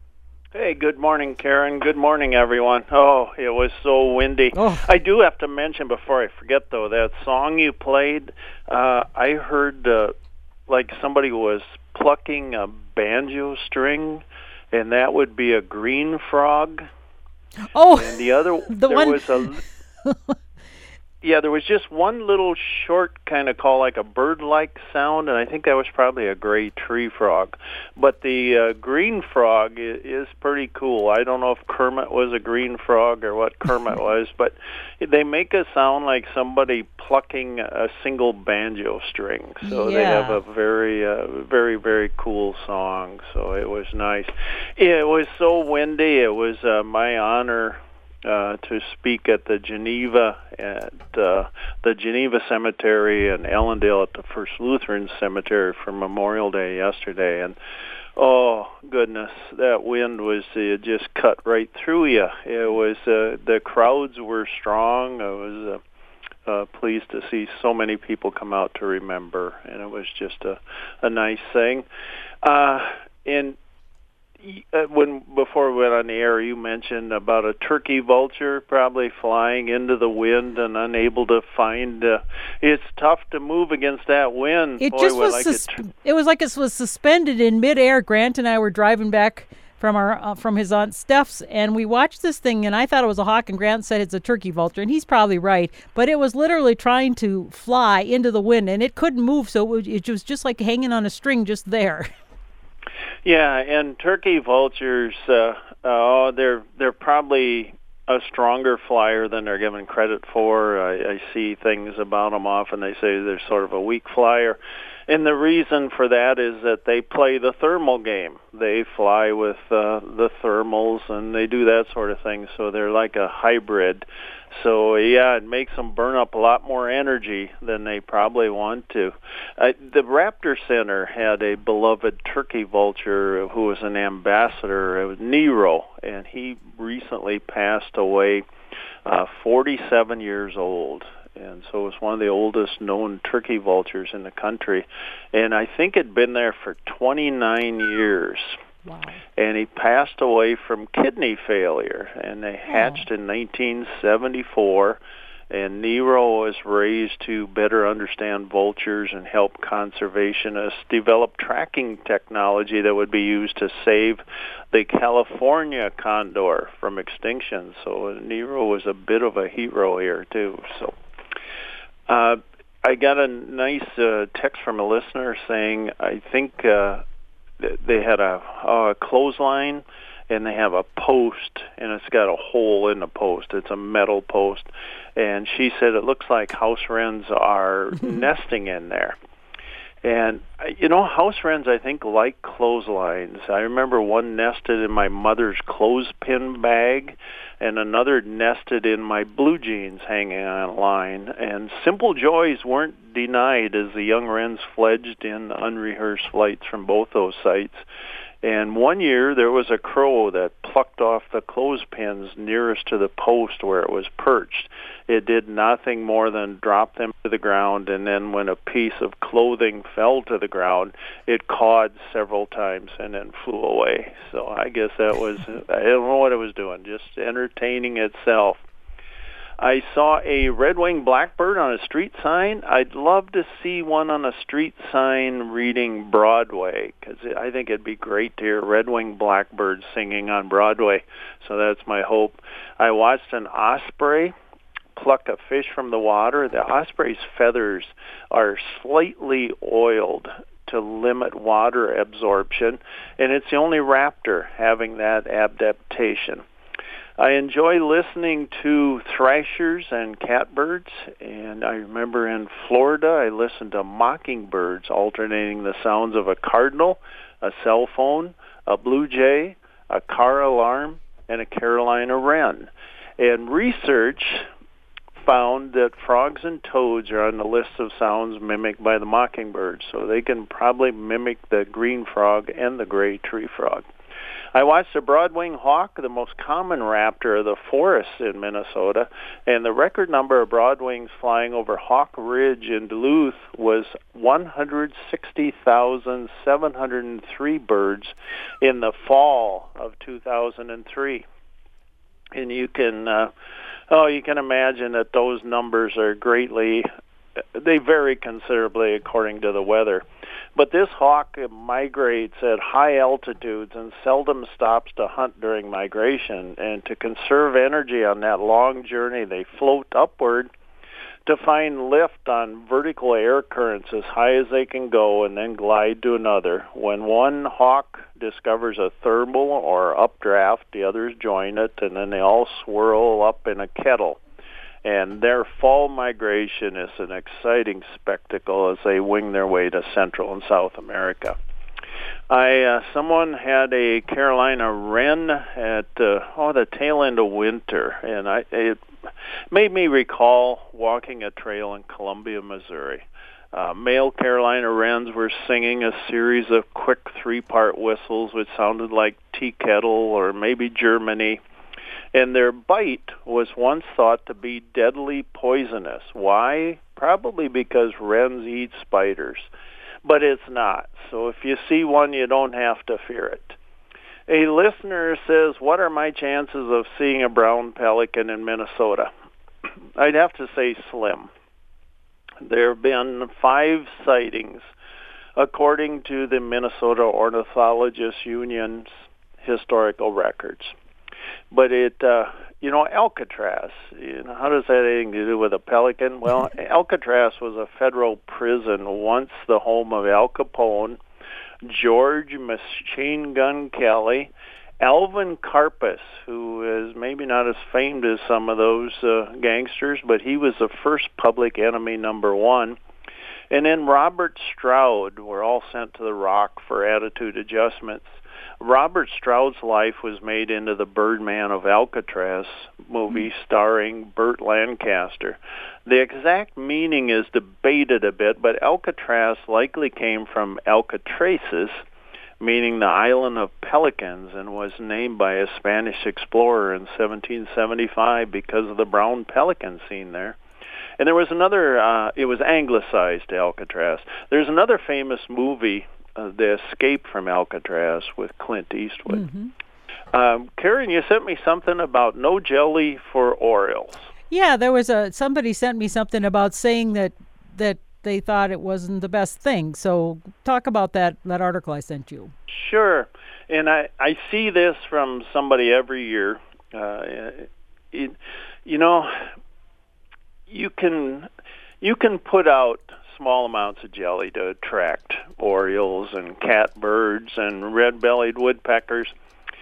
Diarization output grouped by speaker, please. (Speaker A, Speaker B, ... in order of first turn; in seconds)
Speaker A: 0.5-10.1, 10.7-16.9, 18.0-19.6, 21.2-57.6, 58.2-65.8, 66.5-71.9, 72.4-73.6, 74.4-85.8, 103.2-138.5, 139.1-148.6, 149.4-170.9, 172.1-177.0, 177.6-189.2, 190.0-207.8, 208.4-228.6, 229.6-244.3, 244.9-256.4, 257.2-274.5, 275.2-283.9, 284.5-301.2, 302.4-303.3, 303.9-306.9, 307.5-320.5, 321.3-334.2, 334.8-341.4, 342.3-348.8, 349.5-361.4, 362.1-369.5, 370.0-373.6, 374.3-379.1, 380.0-381.3, 382.4-384.7, 385.4-388.9, 389.4-390.8, 391.5-401.0, 401.6-412.8, 413.5-431.8, 432.4-440.4, 441.0-449.3, 450.1-454.1, 462.5-469.3, 470.5-471.3, 471.8-479.1
Speaker B: 4.5-4.9, 17.7-20.4, 39.6-40.4, 84.8-102.1, 148.8-149.2, 152.7-153.1, 449.1-449.5, 454.3-462.3